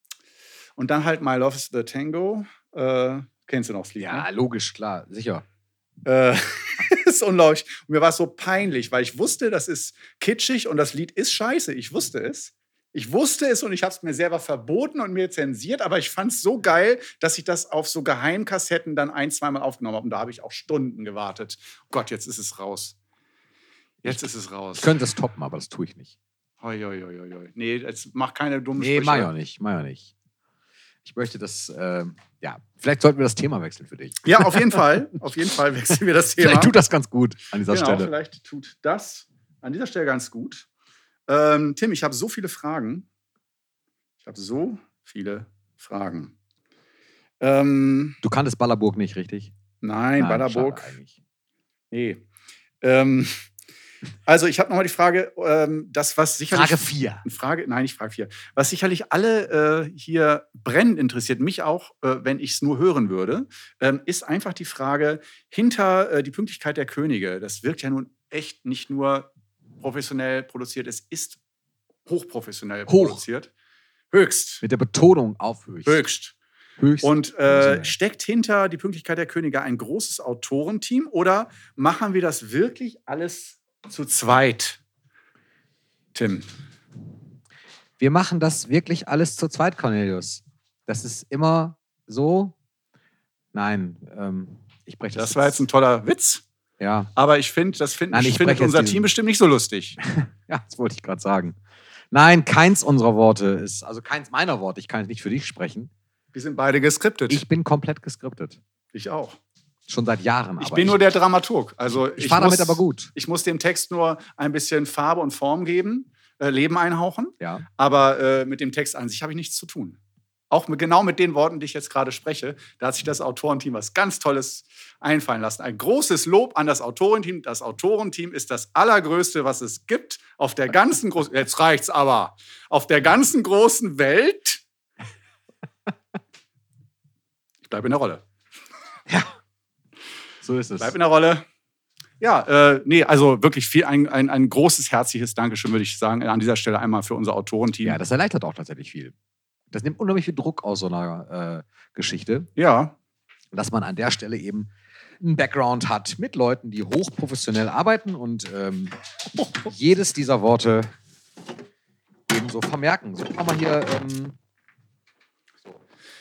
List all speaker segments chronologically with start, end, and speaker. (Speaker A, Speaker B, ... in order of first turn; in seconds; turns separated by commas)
Speaker A: 0.8-4.3, Speaker B: 4.0-5.5, Speaker A: 6.0-23.0, Speaker A: 24.0-24.9, Speaker B: 24.0-26.1, Speaker A: 26.6-29.3, Speaker B: 28.8-30.1, Speaker B: 31.0-34.9, Speaker A: 34.2-36.8, Speaker B: 36.4-38.1, Speaker A: 37.7-40.7, Speaker A: 41.3-43.1, Speaker A: 44.2-46.3, Speaker A: 47.4-48.2, Speaker B: 48.2-49.5, Speaker A: 49.8-50.9, Speaker B: 50.2-51.1, Speaker A: 51.9-52.2, Speaker A: 52.8-53.5, Speaker A: 54.3-71.4, Speaker B: 56.5-57.2, Speaker A: 72.1-73.5, Speaker B: 72.9-73.2, Speaker A: 74.1-74.6, Speaker B: 74.6-76.0, Speaker A: 75.9-76.4, Speaker B: 76.8-78.0, Speaker A: 77.0-84.8, Speaker A: 86.1-86.5, Speaker B: 88.0-92.5, Speaker B: 93.5-95.7, Speaker A: 95.2-96.4, Speaker B: 96.8-97.1, Speaker A: 97.2-100.0, Speaker B: 98.1-99.1, Speaker B: 100.0-101.6, Speaker B: 102.1-105.9, Speaker A: 106.3-107.4, Speaker B: 107.3-108.6, Speaker A: 108.9-109.4, Speaker B: 109.9-111.0, Speaker A: 110.6-120.0, Speaker B: 111.9-113.1, Speaker B: 117.4-117.7, Speaker A: 120.5-134.6, Speaker A: 137.7-138.2, Speaker B: 140.4-140.9, Speaker A: 140.8-141.4, Speaker A: 142.2-148.0, Speaker B: 147.8-149.1, Speaker B: 149.7-152.5, Speaker A: 152.6-152.9, Speaker B: 153.5-159.0, Speaker B: 159.6-160.9, Speaker B: 162.3-164.3